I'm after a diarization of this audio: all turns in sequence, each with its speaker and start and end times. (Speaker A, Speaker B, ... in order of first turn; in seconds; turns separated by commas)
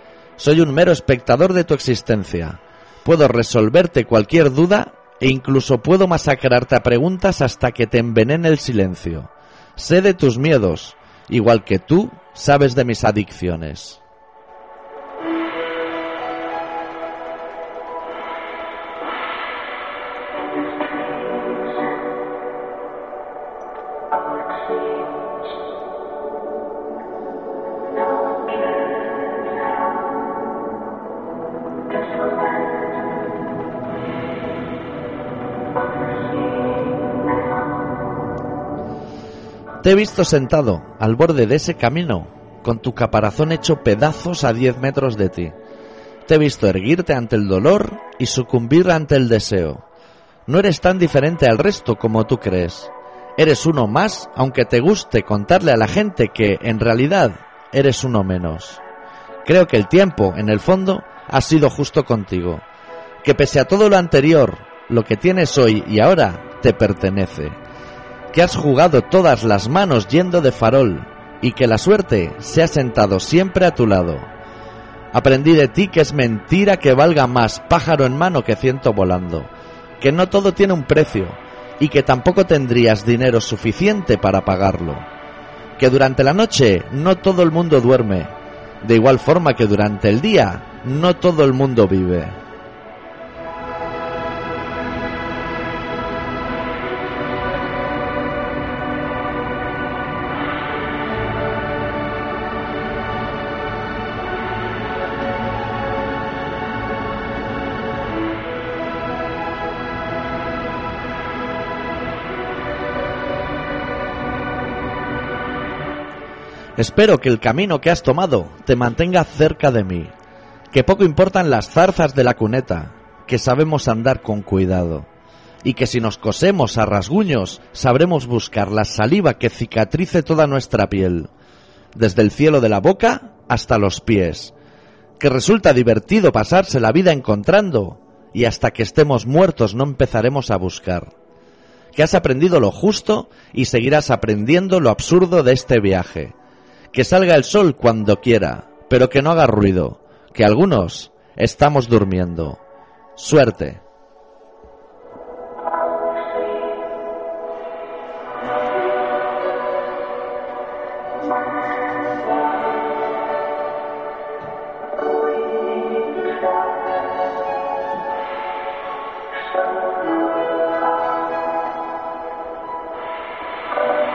Speaker A: 0.4-14.0, Speaker A: 39.8-45.5, Speaker A: 46.2-49.8, Speaker A: 50.5-58.8, Speaker A: 59.4-62.6, Speaker A: 63.2-67.6, Speaker A: 68.3-74.3, Speaker A: 75.1-85.1, Speaker A: 85.8-92.4, Speaker A: 116.8-120.1, Speaker A: 120.7-125.1, Speaker A: 125.6-131.3, Speaker A: 131.9-134.5, Speaker A: 135.2-141.1, Speaker A: 141.9-146.3, Speaker A: 146.9-152.6, Speaker A: 153.2-153.8